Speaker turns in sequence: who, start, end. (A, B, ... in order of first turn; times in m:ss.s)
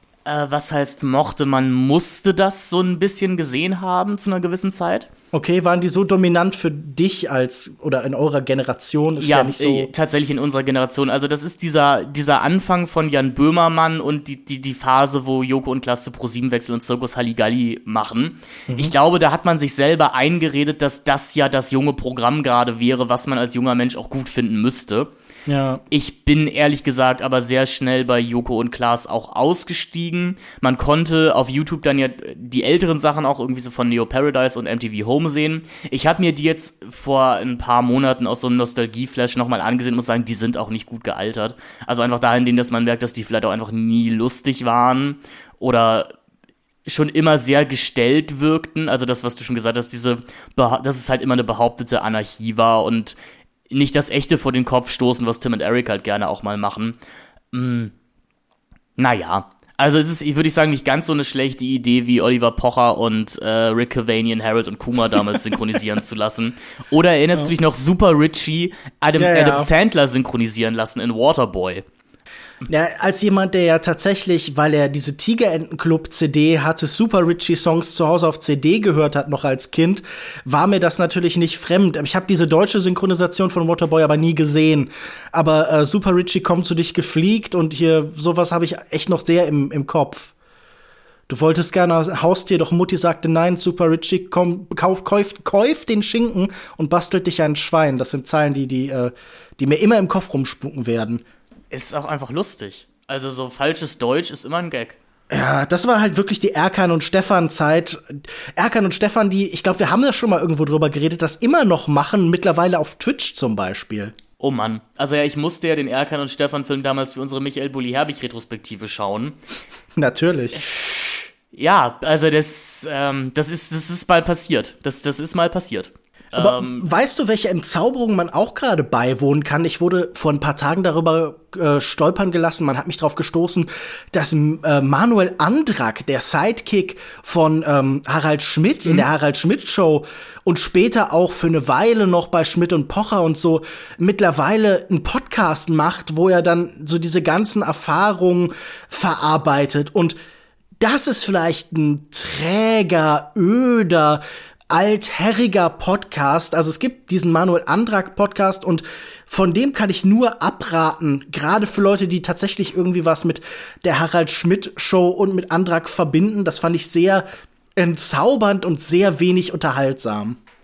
0:00.3-0:05.1 A
0:05.3-0:09.9 B
0:09.2-0:25.1 A
0:18.7-0:18.9 B
0:25.5-0:25.8 B
0:25.9-0:46.1 A
0:46.9-0:53.2 A
0:53.7-0:57.0 A
0:57.5-0:57.9 A
0:59.0-1:11.8 A
1:09.2-1:09.7 B
1:12.7-1:30.3 B
1:31.3-1:41.2 B
1:41.7-1:45.0 A
1:45.3-1:54.1 B
1:54.4-1:59.4 A
2:00.0-2:00.7 B
2:01.5-2:06.8 A
2:06.4-2:30.2 B
2:30.8-2:47.2 B
2:47.8-2:50.4 B